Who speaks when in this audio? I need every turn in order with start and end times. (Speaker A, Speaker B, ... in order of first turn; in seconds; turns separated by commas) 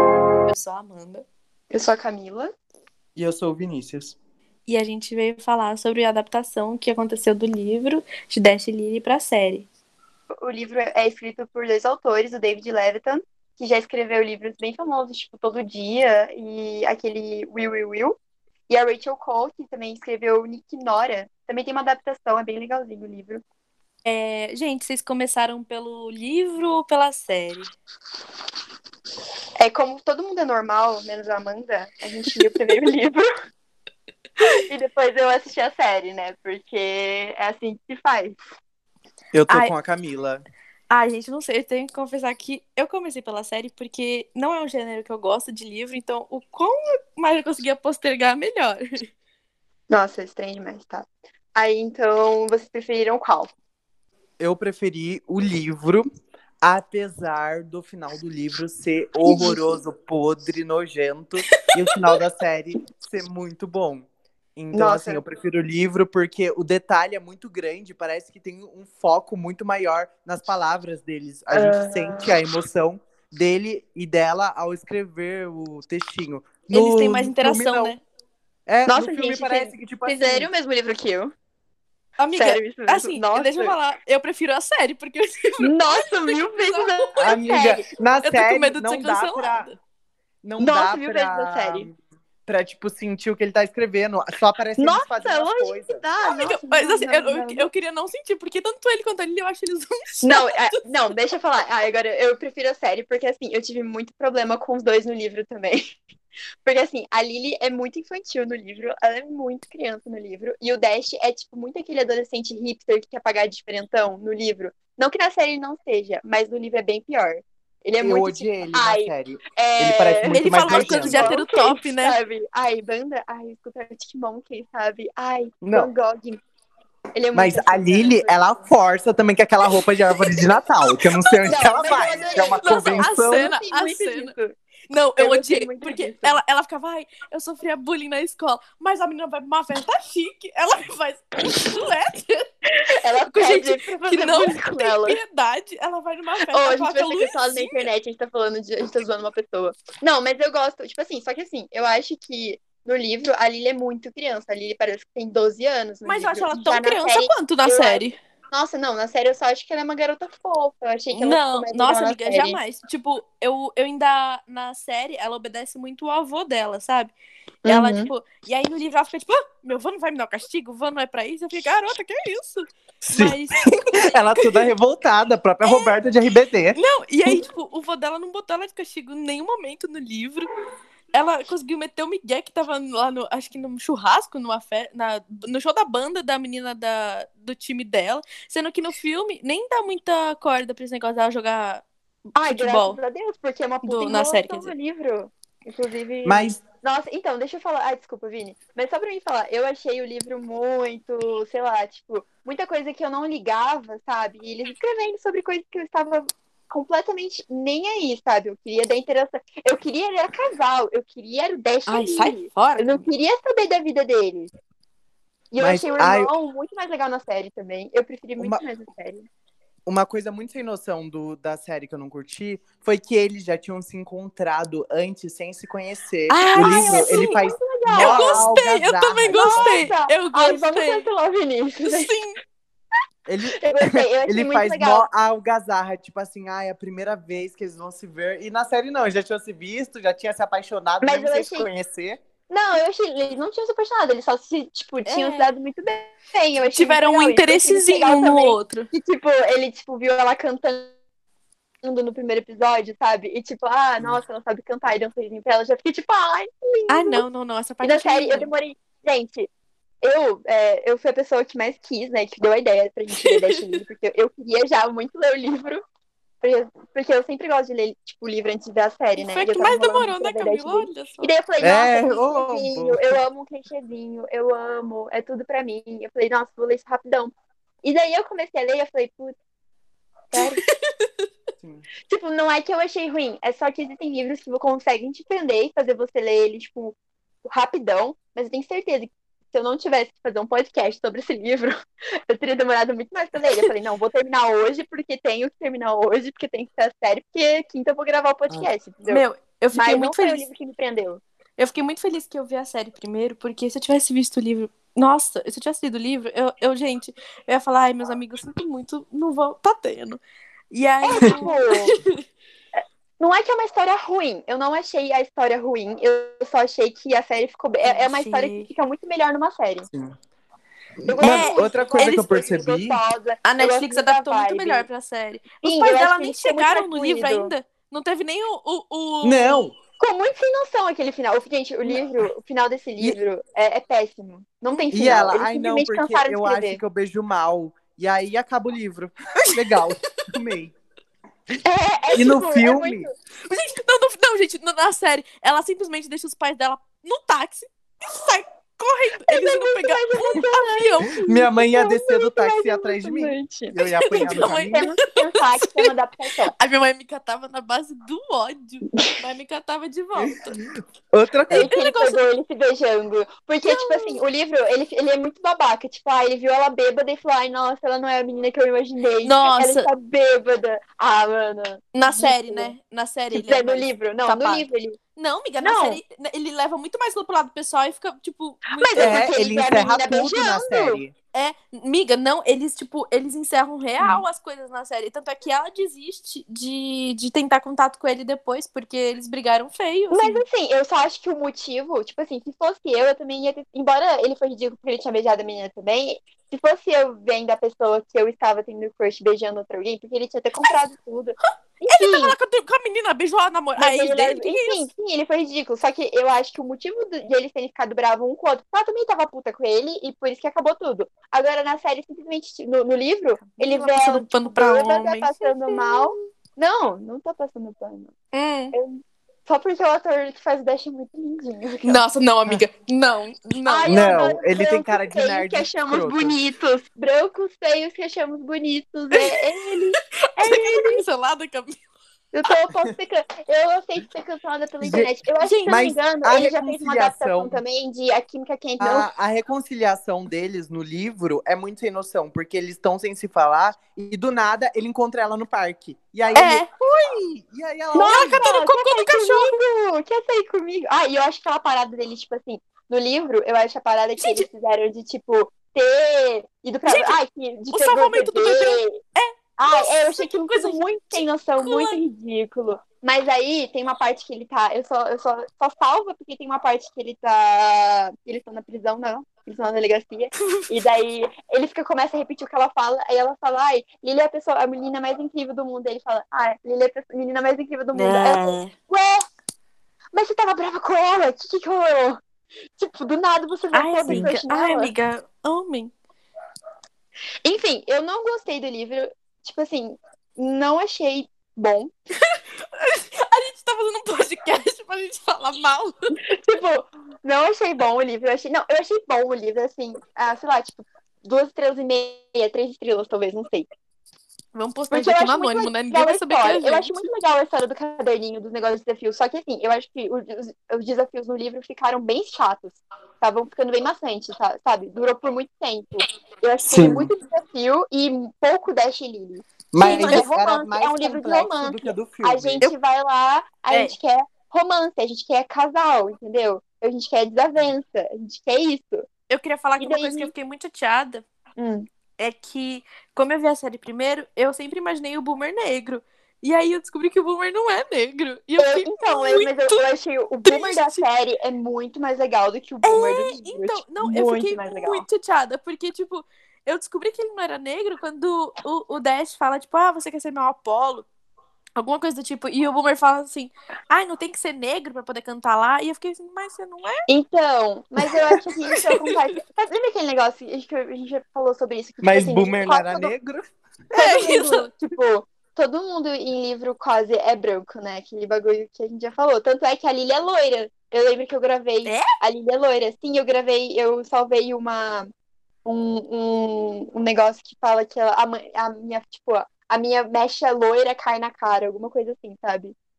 Speaker A: 0.5-1.2, Speaker B: 1.7-2.5, Speaker C: 3.1-4.1, Speaker A: 4.7-9.7, Speaker B: 10.4-18.1, Speaker B: 18.7-23.4, Speaker A: 24.0-27.7, Speaker B: 29.6-33.2, Speaker B: 34.5-38.4, Speaker C: 39.3-40.4, Speaker A: 39.5-39.7, Speaker A: 40.9-49.1, Speaker B: 49.9-53.5, Speaker C: 54.4-56.1, Speaker C: 56.6-78.0, Speaker B: 59.2-59.7, Speaker B: 64.7-65.2, Speaker B: 71.5-72.3, Speaker A: 76.7-78.0, Speaker C: 78.7-80.5, Speaker B: 78.9-81.3, Speaker A: 82.2-87.2, Speaker B: 82.3-83.8, Speaker B: 85.6-87.8, Speaker C: 87.2-89.7, Speaker A: 88.2-89.8, Speaker C: 90.4-96.0, Speaker B: 90.6-91.9, Speaker B: 94.8-97.7, Speaker A: 96.2-100.8, Speaker B: 100.2-105.9, Speaker B: 106.6-126.4, Speaker C: 118.0-121.3, Speaker A: 120.3-122.2, Speaker C: 125.6-125.9, Speaker B: 127.1-128.7, Speaker C: 127.3-133.5, Speaker B: 131.5-134.6, Speaker A: 132.6-134.3, Speaker A: 134.9-142.4, Speaker B: 135.2-136.4, Speaker B: 142.9-145.2, Speaker A: 143.3-147.8, Speaker B: 146.5-162.6, Speaker A: 156.0-158.2, Speaker A: 161.1-167.1, Speaker B: 167.6-168.1, Speaker A: 167.7-174.5, Speaker C: 173.1-177.4, Speaker A: 175.6-175.9, Speaker A: 176.7-180.5, Speaker A: 181.1-191.8, Speaker B: 192.3-214.5, Speaker A: 192.4-193.0, Speaker A: 193.8-194.7, Speaker C: 196.2-196.6, Speaker A: 211.9-213.1, Speaker B: 215.5-219.2, Speaker C: 215.6-216.3, Speaker C: 219.8-229.9, Speaker A: 226.3-227.3, Speaker B: 226.5-228.5, Speaker A: 227.9-231.1, Speaker B: 229.3-232.1, Speaker A: 231.8-232.4, Speaker C: 233.2-242.2, Speaker B: 233.6-235.1, Speaker B: 241.0-241.7, Speaker B: 242.5-250.9, Speaker A: 245.1-245.5, Speaker A: 246.6-248.9, Speaker B: 251.8-257.2, Speaker A: 256.9-258.5, Speaker B: 257.8-259.5, Speaker B: 260.0-265.8, Speaker A: 263.1-263.8, Speaker B: 266.4-277.3, Speaker A: 269.2-271.3, Speaker C: 271.6-273.2, Speaker B: 277.8-279.4, Speaker B: 280.3-280.6, Speaker A: 280.4-281.1, Speaker C: 281.6-281.9, Speaker B: 282.0-286.9, Speaker B: 287.5-291.8, Speaker B: 292.3-301.2, Speaker A: 299.0-300.4, Speaker A: 301.6-312.2, Speaker B: 311.0-312.0, Speaker B: 313.2-319.9, Speaker A: 317.8-318.7, Speaker C: 319.9-320.1, Speaker C: 321.0-323.0, Speaker B: 321.1-324.9, Speaker A: 321.2-322.3, Speaker A: 323.4-329.6, Speaker B: 325.6-327.5, Speaker C: 329.2-329.7, Speaker B: 330.0-336.8, Speaker A: 334.7-335.4, Speaker C: 334.9-340.7, Speaker B: 341.6-343.1, Speaker C: 342.1-343.1, Speaker A: 343.5-351.2, Speaker B: 349.3-356.5, Speaker C: 351.2-354.9, Speaker A: 353.9-355.9, Speaker A: 356.5-360.6, Speaker C: 360.2-361.7, Speaker B: 361.5-372.7, Speaker A: 361.6-362.2, Speaker A: 363.6-364.2, Speaker A: 369.2-369.9, Speaker A: 371.9-374.6, Speaker B: 373.3-375.0, Speaker A: 375.2-379.3, Speaker B: 375.6-376.0, Speaker B: 378.7-381.0, Speaker C: 378.9-381.1, Speaker A: 381.3-390.4, Speaker B: 384.0-384.2, Speaker B: 390.1-402.4, Speaker A: 401.9-404.9, Speaker B: 403.8-418.1, Speaker A: 413.4-416.1, Speaker A: 418.3-418.7, Speaker B: 418.7-422.0, Speaker A: 421.8-424.1, Speaker B: 423.6-431.0, Speaker C: 423.8-426.4, Speaker A: 430.4-431.8, Speaker B: 432.3-439.1, Speaker C: 434.8-435.1, Speaker A: 435.4-435.9, Speaker C: 435.7-437.6, Speaker C: 438.8-448.4, Speaker A: 446.3-446.7, Speaker B: 447.9-459.0, Speaker A: 447.9-449.5, Speaker A: 454.2-454.5, Speaker A: 456.9-457.2, Speaker A: 457.7-460.8, Speaker B: 459.6-479.2, Speaker A: 461.6-462.0, Speaker A: 470.4-470.7, Speaker A: 477.9-478.7, Speaker B: 480.1-482.2, Speaker B: 482.8-484.9, Speaker A: 483.7-485.9, Speaker B: 487.4-491.9, Speaker A: 492.3-495.9, Speaker B: 496.3-503.7, Speaker A: 504.5-507.0, Speaker B: 504.9-529.0, Speaker C: 516.7-517.1, Speaker C: 519.7-522.7, Speaker A: 519.8-520.2, Speaker A: 529.3-531.2, Speaker B: 529.8-530.3, Speaker B: 531.6-531.9, Speaker A: 532.2-539.9, Speaker B: 538.6-545.0, Speaker A: 540.4-541.0, Speaker A: 542.8-551.1, Speaker A: 551.8-557.0, Speaker B: 557.1-563.1, Speaker C: 562.0-564.3, Speaker B: 563.9-575.1, Speaker A: 564.0-564.6, Speaker A: 571.8-572.1, Speaker B: 575.6-582.8